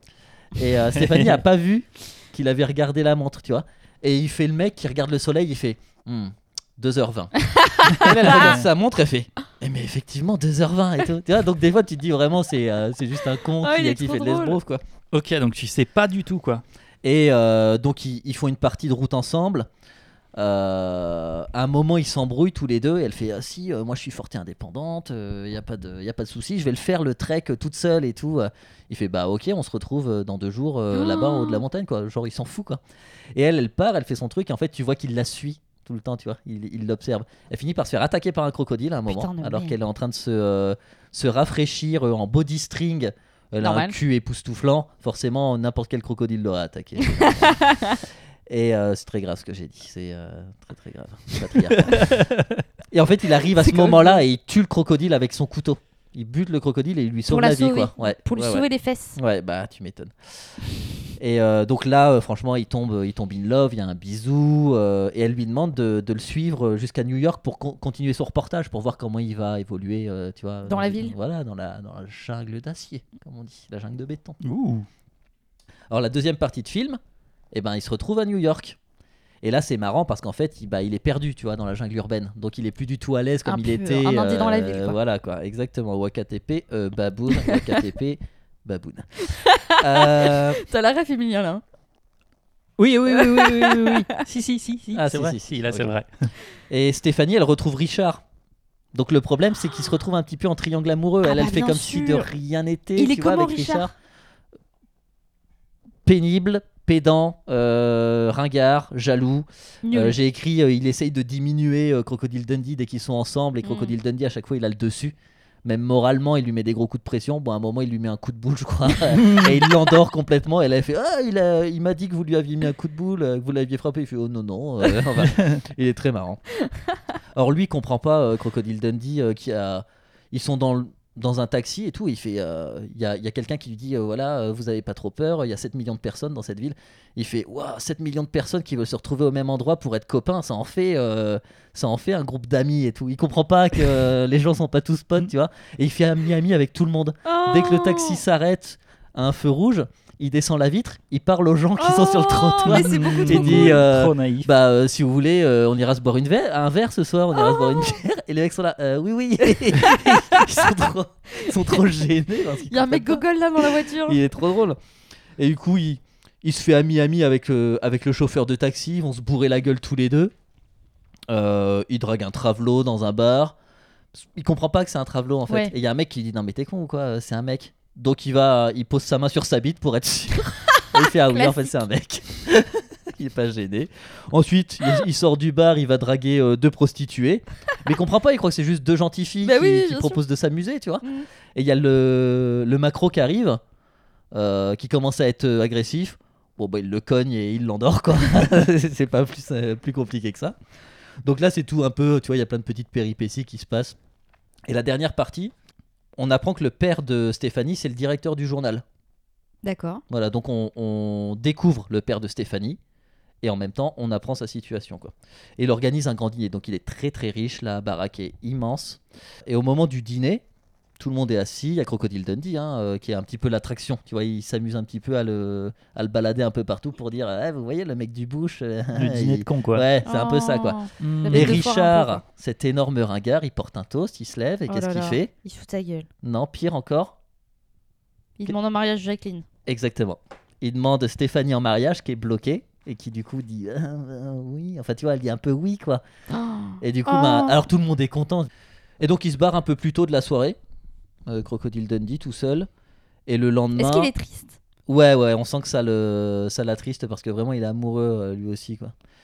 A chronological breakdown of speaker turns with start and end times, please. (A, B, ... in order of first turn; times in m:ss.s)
0:00.5-0:14.8 A
0:00.9-0:01.4 B
0:07.5-0:08.6 C
0:08.0-0:08.6 B
0:13.6-0:14.6 C
0:15.1-0:16.6 B
0:17.0-0:19.7 A
0:20.4-0:32.8 A
0:30.9-0:31.6 C
0:33.3-0:47.8 A
0:39.1-0:39.7 C
0:43.6-0:44.0 C
0:47.1-0:48.0 C
0:48.5-0:52.3 A
0:51.9-0:52.6 B
0:52.9-1:00.5 A
0:53.6-0:54.2 C
0:57.3-0:59.2 C
1:01.2-1:14.4 A
1:10.7-1:11.1 C
1:14.4-1:14.9 B
1:15.9-1:17.0 A
1:17.5-1:18.8 A
1:19.4-1:30.6 A
1:23.4-1:25.0 C
1:29.2-1:31.6 C
1:32.8-1:36.3 B
1:33.1-1:34.2 C
1:34.9-1:35.9 A
1:36.7-1:38.2 A
1:38.9-1:43.9 A
1:41.2-1:42.3 C
1:43.0-1:43.9 C
1:46.0-2:06.4 A
1:49.8-1:50.2 C
1:53.6-1:53.9 C
1:59.1-1:59.6 B
2:05.2-2:05.6 B
2:07.3-2:44.8 A
2:27.2-2:28.2 C
2:31.8-2:33.8 C
2:32.6-2:34.5 B
2:37.3-2:38.0 C
2:39.7-2:40.4 C
2:41.4-2:41.8 C
2:42.7-2:44.2 C
2:45.4-2:50.3 A
2:51.3-2:53.6 A
2:54.2-3:13.6 A
2:55.5-2:55.7 C
3:01.3-3:01.7 C
3:09.4-3:10.2 C
3:11.0-3:11.3 C
3:14.3-3:20.6 A
3:21.2-3:24.0 A
3:24.7-3:25.5 A
3:26.2-3:28.8 A
3:29.6-3:30.0 C
3:30.1-3:32.8 A
3:33.4-3:40.4 A
3:41.0-3:55.3 A
3:48.9-3:49.8 B
3:50.0-3:52.2 C
3:51.0-3:51.6 B
3:54.7-3:56.1 C
3:56.2-3:57.2 A
3:58.4-3:59.4 C
3:59.6-4:06.0 A
4:06.3-4:07.6 C
4:06.8-4:08.5 A
4:09.0-4:10.6 A
4:11.3-4:12.7 A
4:13.3-4:14.1 A
4:13.8-4:14.6 C
4:14.8-4:18.9 A